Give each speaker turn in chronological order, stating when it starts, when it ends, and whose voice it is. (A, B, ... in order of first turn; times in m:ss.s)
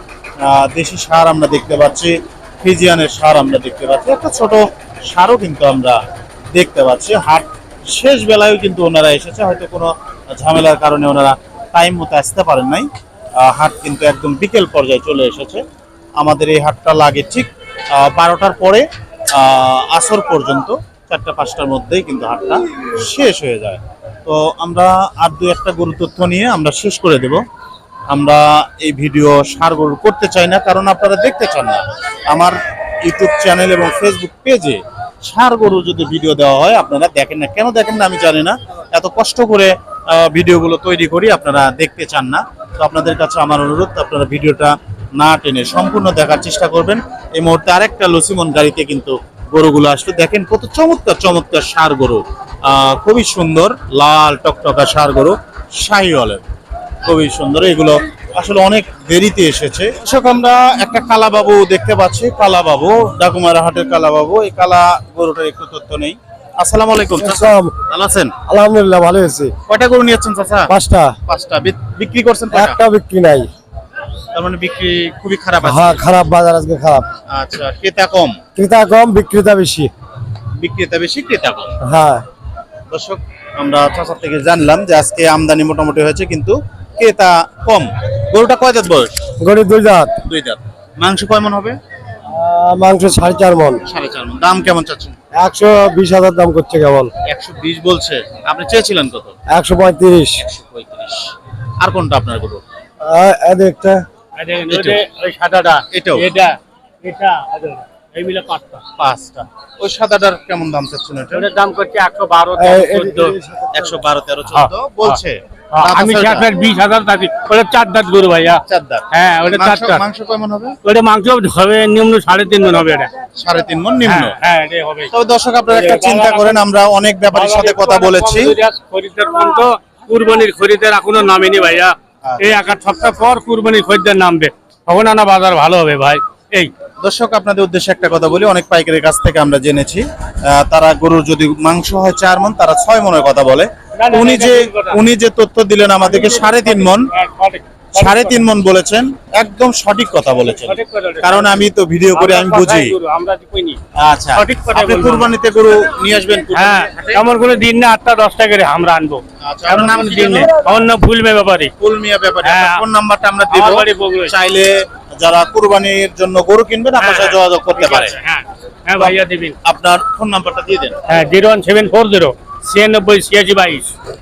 0:00.4-0:06.0 A
0:06.5-0:15.6 A
0:16.2-0:27.4 A
0:28.1-0:56.4 A
0:57.0-1:08.3 A
1:07.2-1:07.7 B
1:08.4-1:09.5 B
1:09.7-1:10.7 A
1:10.7-1:11.2 B
1:11.3-1:12.8 A
1:12.5-1:13.5 B
1:14.3-1:16.0 A
1:15.6-1:17.1 B
1:17.3-1:18.4 A
1:18.6-1:19.9 B
1:20.6-1:21.7 A
1:21.8-1:22.2 B
1:22.9-1:29.1 A
1:29.4-1:30.2 B
1:30.2-1:31.8 A
1:32.3-1:33.8 B
1:33.9-1:35.2 A
1:35.4-1:37.1 B
1:37.3-1:39.4 A
1:39.5-1:40.4 B
1:40.4-1:42.6 A
1:43.0-1:44.0 B
1:44.4-1:48.8 C
1:44.7-1:45.0 A
1:45.9-1:46.2 A
1:49.0-1:51.5 A
1:51.3-1:53.3 C
1:52.6-1:54.0 B
1:53.7-1:56.5 A
1:54.5-1:55.2 C
1:55.7-2:00.0 C
1:58.7-2:00.8 A
2:00.8-2:03.1 C
2:03.4-2:04.4 A
2:04.1-2:05.1 C
2:05.1-2:08.6 A
2:05.7-2:06.6 C
2:07.3-2:16.7 C
2:12.2-2:12.7 A
2:17.0-2:27.1 A
2:24.0-2:25.0 C
2:26.0-2:28.4 C
2:28.0-2:32.9 A
2:30.5-2:31.5 C
2:32.1-2:33.8 C
2:34.0-2:37.2 A
2:34.4-2:35.3 C
2:36.5-2:41.7 C
2:39.4-2:40.5 A
2:41.8-2:48.2 A
2:42.4-2:42.8 C
2:43.5-2:44.3 C
2:47.0-2:49.6 C
2:49.0-2:50.9 A
2:51.1-2:53.9 C